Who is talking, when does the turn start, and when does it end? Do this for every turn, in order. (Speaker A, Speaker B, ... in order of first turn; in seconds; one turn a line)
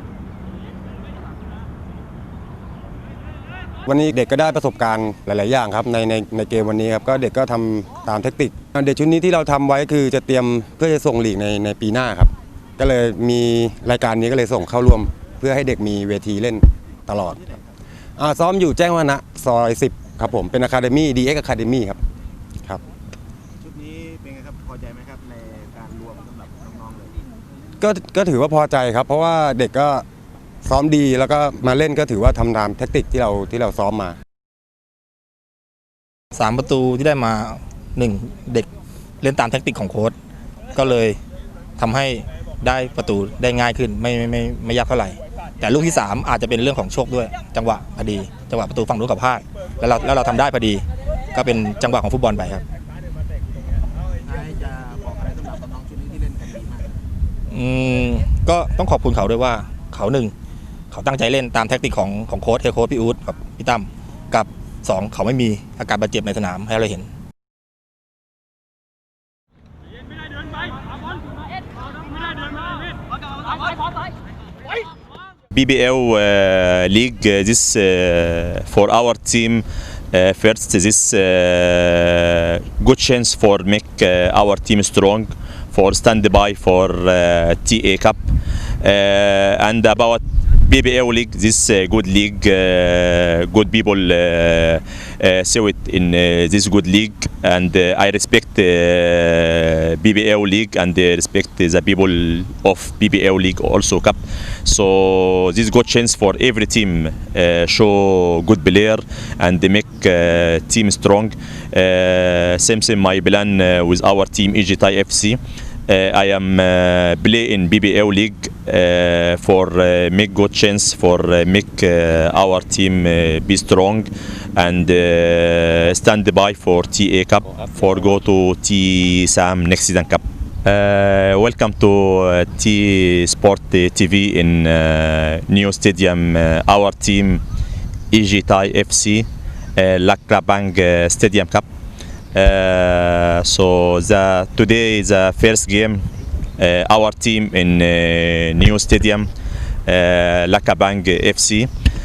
Speaker A: 3.9-17.4
Speaker A: 18.2-22.0
Speaker B: 23.6-27.1
Speaker A: 27.8-30.0
Speaker A: 30.6-34.2
Speaker C: 36.3-38.7
Speaker C: 39.2-40.1
Speaker C: 40.7-41.2
Speaker C: 41.8-52.6
Speaker B: 54.2-56.9
Speaker C: 57.5-60.3
Speaker C: 60.9-67.1
Speaker D: 75.5-88.2
Speaker D: 88.8-137.4
Speaker D: 138.1-141.7
Speaker D: 142.3-146.0
Speaker D: 146.6-149.3
Speaker D: 149.8-151.7